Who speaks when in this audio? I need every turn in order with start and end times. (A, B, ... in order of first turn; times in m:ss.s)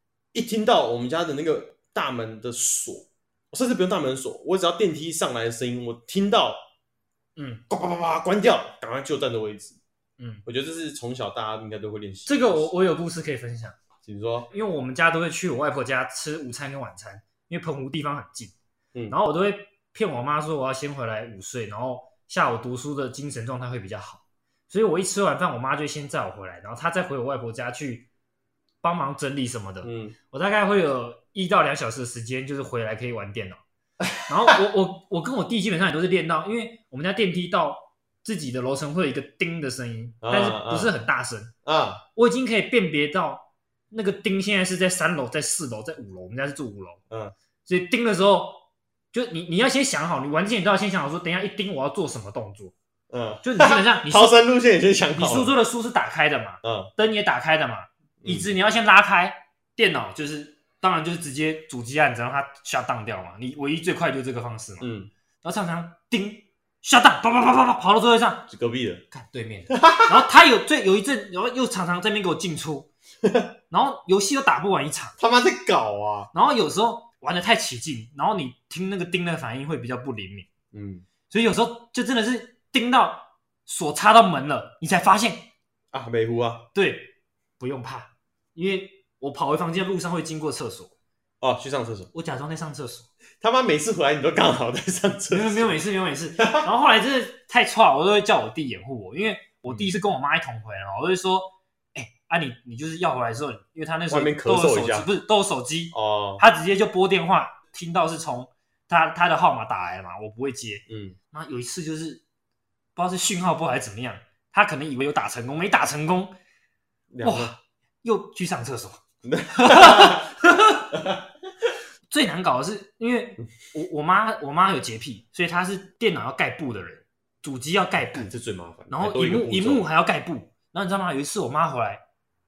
0:00.3-0:06.6 A
0:07.4-0:07.6 B
0:07.7-0:09.8 A
0:10.2-0:10.4 B
0:10.4-0:12.7 A
0:12.2-0:13.8 B
0:14.0-0:14.5 A
0:14.5-0:18.5 B
0:19.1-0:28.1 B
0:28.8-0:33.6 B
0:29.8-0:30.2 A
0:34.0-0:34.6 A
0:34.2-0:41.5 B
0:40.2-0:41.0 A
0:41.6-0:42.0 A
0:42.1-0:47.0 B
0:47.6-0:52.7 B
0:53.1-0:55.5 A
0:53.4-0:54.3 B
0:55.1-1:04.9 B
0:56.6-0:56.9 A
0:58.2-0:58.5 A
1:04.8-1:05.1 A
1:05.4-1:08.5 B
1:08.5-1:09.0 A
1:09.1-1:12.9 B
1:09.7-1:10.3 A
1:13.2-1:13.5 A
1:13.7-1:15.2 B
1:15.2-1:16.3 A
1:16.3-1:20.5 B
1:20.7-1:21.0 A
1:21.3-1:25.5 B
1:25.9-1:26.7 A
1:26.7-1:30.9 B
1:31.4-1:32.1 A
1:32.1-1:33.1 B
1:33.4-1:35.8 A
1:35.3-1:52.2 B
1:36.4-1:36.7 A
1:44.1-1:45.1 A
1:45.9-1:46.4 A
1:50.9-1:51.2 A
1:53.0-1:56.4 B
1:57.1-1:57.5 A
1:57.2-2:00.9 B
1:59.2-2:00.3 A
2:00.9-2:01.7 A
2:02.1-2:08.3 B
2:08.0-2:09.9 A
2:08.9-2:12.0 B